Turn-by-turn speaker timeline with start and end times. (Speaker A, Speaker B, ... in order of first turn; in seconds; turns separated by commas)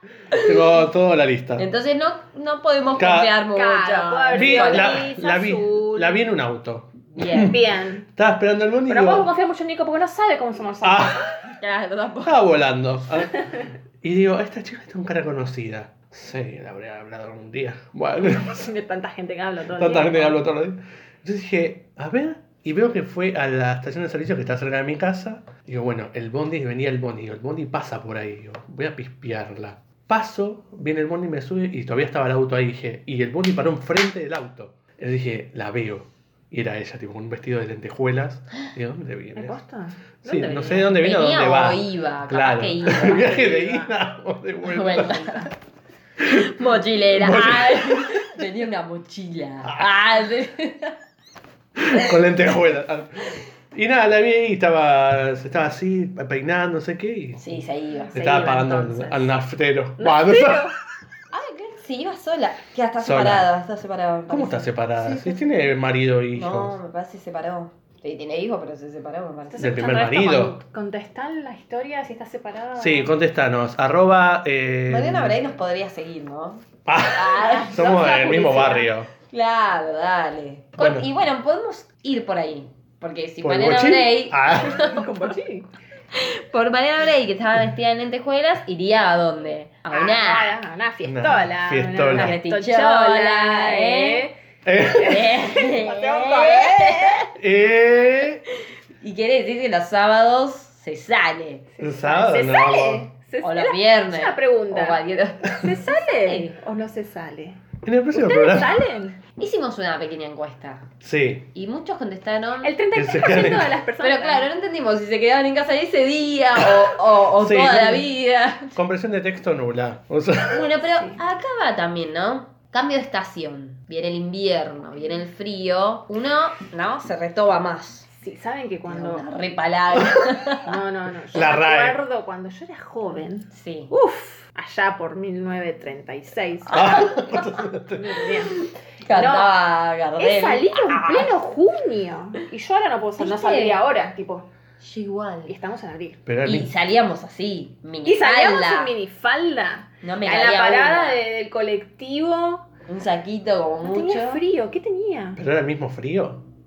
Speaker A: 0.3-0.7, Speaker B: 0.3-1.7, Speaker A: 1.6-5.1, Speaker B: 3.0-3.4, Speaker C: 3.5-6.2, Speaker B: 4.3-9.3, Speaker A: 7.2-7.5, Speaker C: 7.3-8.1, Speaker C: 8.9-11.2, Speaker B: 10.8-11.5, Speaker A: 11.6-12.4, Speaker B: 12.2-13.5, Speaker B: 14.0-18.7, Speaker C: 18.4-20.4, Speaker B: 19.8-39.6, Speaker C: 39.4-40.2, Speaker B: 40.2-45.5, Speaker A: 40.2-43.4, Speaker C: 43.0-43.9, Speaker A: 44.7-45.5, Speaker A: 46.2-51.0, Speaker B: 47.0-48.5, Speaker B: 49.6-49.9, Speaker B: 51.8-57.4, Speaker A: 57.4-59.3, Speaker B: 58.1-60.7, Speaker C: 60.0-60.7, Speaker A: 61.3-65.4, Speaker B: 63.0-63.5, Speaker B: 64.3-66.8, Speaker A: 66.3-69.7, Speaker C: 69.5-73.1, Speaker B: 69.6-70.6, Speaker B: 72.8-75.4, Speaker A: 74.9-77.8, Speaker B: 76.9-79.1, Speaker C: 77.6-78.9, Speaker A: 79.3-85.0, Speaker B: 80.8-81.1, Speaker B: 83.4-84.8, Speaker C: 84.7-85.7, Speaker A: 86.1-90.5, Speaker C: 89.9-94.3, Speaker B: 91.0-92.3, Speaker A: 92.1-94.3, Speaker B: 94.7-95.3, Speaker A: 94.8-97.3, Speaker C: 95.0-97.3, Speaker B: 97.3-98.4, Speaker A: 99.0-101.7, Speaker C: 101.8-107.6, Speaker B: 101.8-103.1, Speaker A: 103.4-106.6, Speaker B: 107.8-108.8, Speaker C: 108.1-109.2, Speaker A: 109.4-110.9, Speaker B: 111.0-111.5, Speaker A: 111.5-112.8, Speaker C: 112.6-114.5, Speaker B: 112.9-113.8, Speaker A: 114.0-118.8, Speaker B: 117.4-118.1, Speaker B: 118.8-120.7, Speaker A: 120.5-128.1, Speaker C: 128.2-129.3, Speaker A: 128.9-130.7, Speaker C: 130.6-136.9, Speaker B: 131.3-132.0, Speaker A: 133.5-133.9, Speaker B: 136.7-138.3, Speaker A: 136.7-137.4, Speaker C: 138.0-138.5, Speaker A: 138.5-141.3, Speaker C: 139.1-139.5, Speaker C: 140.2-144.5, Speaker A: 143.2-143.8, Speaker A: 144.8-145.6, Speaker C: 145.5-146.2, Speaker B: 146.3-146.7, Speaker A: 146.4-148.9, Speaker C: 148.1-152.7, Speaker A: 150.0-151.2, Speaker A: 152.9-154.4, Speaker C: 153.8-155.4, Speaker B: 155.4-156.4